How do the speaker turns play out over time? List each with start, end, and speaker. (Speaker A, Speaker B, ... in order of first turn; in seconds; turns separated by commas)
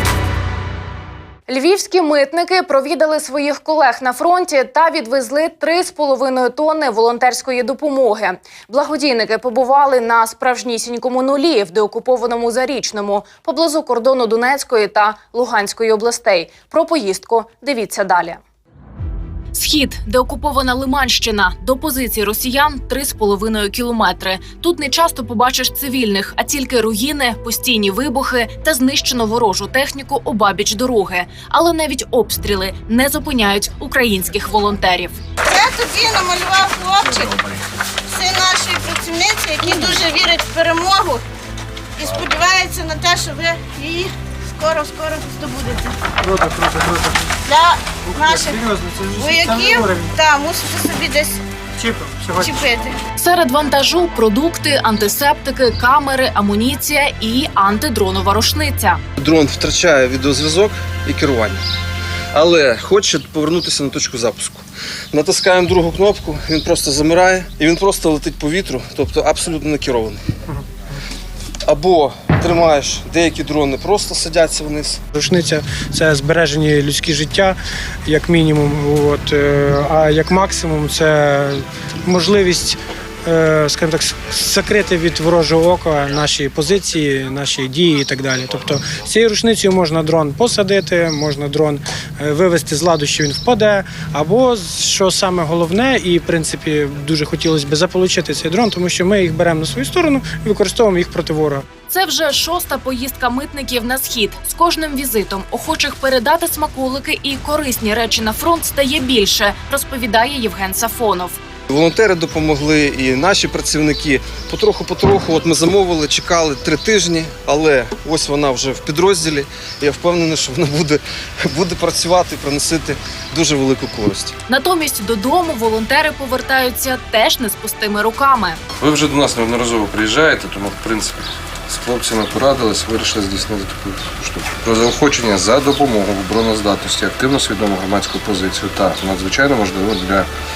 Speaker A: 1.5-18.4, Speaker A: 19.5-35.2, Speaker B: 35.5-37.3, Speaker B: 38.1-41.2, Speaker B: 42.0-45.9, Speaker B: 47.5-48.6, Speaker B: 49.2-51.4, Speaker B: 52.4-53.0, Speaker A: 53.2-59.0, Speaker C: 59.2-61.6, Speaker C: 62.3-64.6, Speaker C: 65.1-70.2, Speaker C: 71.7-75.0, Speaker D: 75.1-101.6, Speaker A: 101.9-111.4, Speaker C: 111.7-124.3, Speaker A: 124.5-128.6, Speaker E: 128.8-140.3